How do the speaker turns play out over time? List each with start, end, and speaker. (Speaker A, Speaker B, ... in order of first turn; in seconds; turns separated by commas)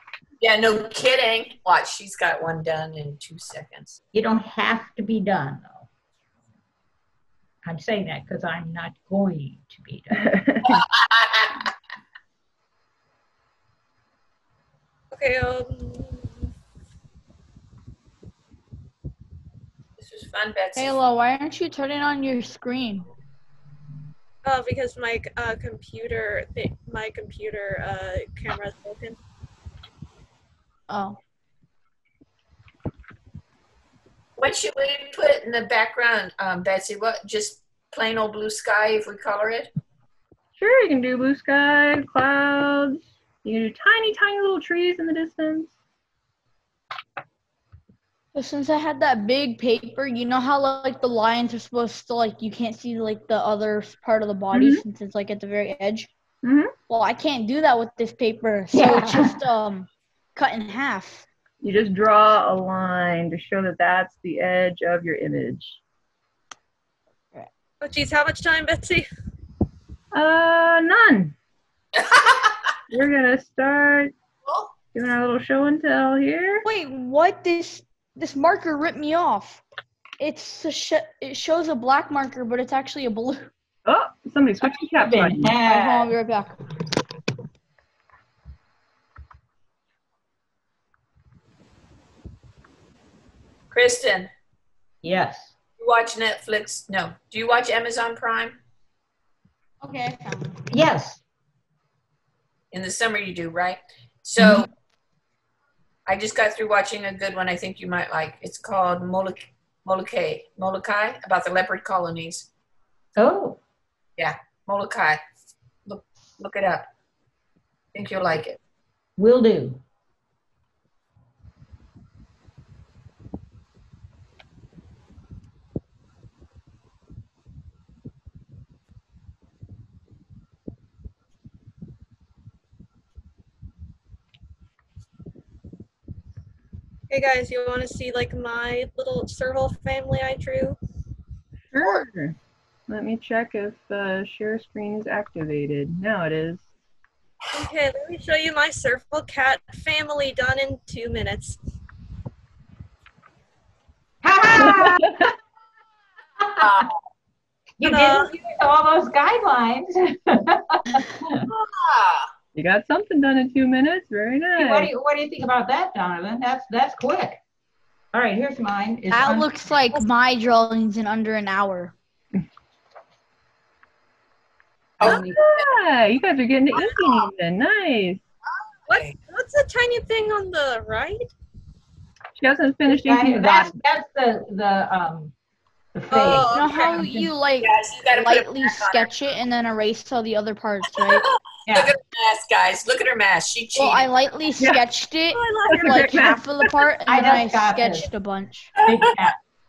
Speaker A: 0.4-4.0, Speaker B: 4.1-5.9, Speaker B: 7.6-10.4, Speaker C: 10.2-10.8, Speaker A: 10.6-11.7, Speaker D: 15.1-16.5, Speaker A: 20.0-21.0, Speaker E: 20.8-23.1, Speaker D: 24.4-29.2, Speaker E: 30.9-31.2, Speaker A: 34.4-39.7, Speaker C: 40.6-45.7, Speaker E: 48.3-56.1, Speaker C: 54.5-54.8, Speaker C: 56.4-56.7, Speaker E: 56.9-61.2, Speaker B: 58.7-59.3, Speaker C: 61.6-65.8, Speaker D: 67.8-69.1, Speaker C: 70.1-71.3, Speaker A: 71.9-72.6, Speaker C: 72.9-74.1, Speaker A: 74.4-74.7, Speaker C: 74.9-76.6, Speaker E: 76.6-79.6, Speaker E: 80.2-83.5, Speaker C: 83.9-85.5, Speaker B: 84.9-86.1, Speaker E: 85.6-86.6, Speaker A: 93.7-94.3, Speaker B: 95.0-95.5, Speaker A: 95.8-98.6, Speaker E: 99.8-100.6, Speaker B: 100.7-101.2, Speaker A: 102.7-104.7, Speaker B: 104.4-104.7, Speaker A: 106.0-112.5, Speaker B: 113.2-113.6, Speaker A: 114.2-115.2, Speaker A: 115.8-116.9, Speaker A: 117.9-118.6, Speaker B: 119.2-119.8, Speaker D: 137.1-140.8, Speaker C: 141.7-142.4, Speaker A: 141.8-142.1, Speaker C: 142.9-146.6, Speaker D: 147.5-151.6, Speaker B: 154.2-155.3, Speaker C: 154.6-155.2, Speaker B: 156.4-156.7, Speaker A: 156.6-157.0, Speaker B: 157.8-161.5, Speaker D: 157.8-158.3, Speaker A: 161.4-162.3, Speaker C: 162.5-164.9, Speaker B: 164.6-167.4, Speaker B: 168.1-169.5, Speaker E: 169.1-171.9, Speaker A: 175.0-175.6, Speaker B: 175.0-175.4, Speaker C: 175.0-178.2, Speaker D: 176.7-177.2, Speaker A: 178.8-179.2, Speaker D: 178.9-181.3, Speaker C: 182.3-183.7, Speaker B: 182.9-185.3, Speaker B: 185.9-187.3, Speaker D: 186.1-187.1, Speaker E: 186.5-191.2, Speaker A: 187.6-189.1, Speaker A: 190.9-194.1, Speaker B: 191.7-191.9, Speaker E: 193.8-198.7, Speaker C: 195.7-196.4, Speaker B: 197.1-198.1, Speaker A: 198.8-199.2, Speaker B: 198.8-199.4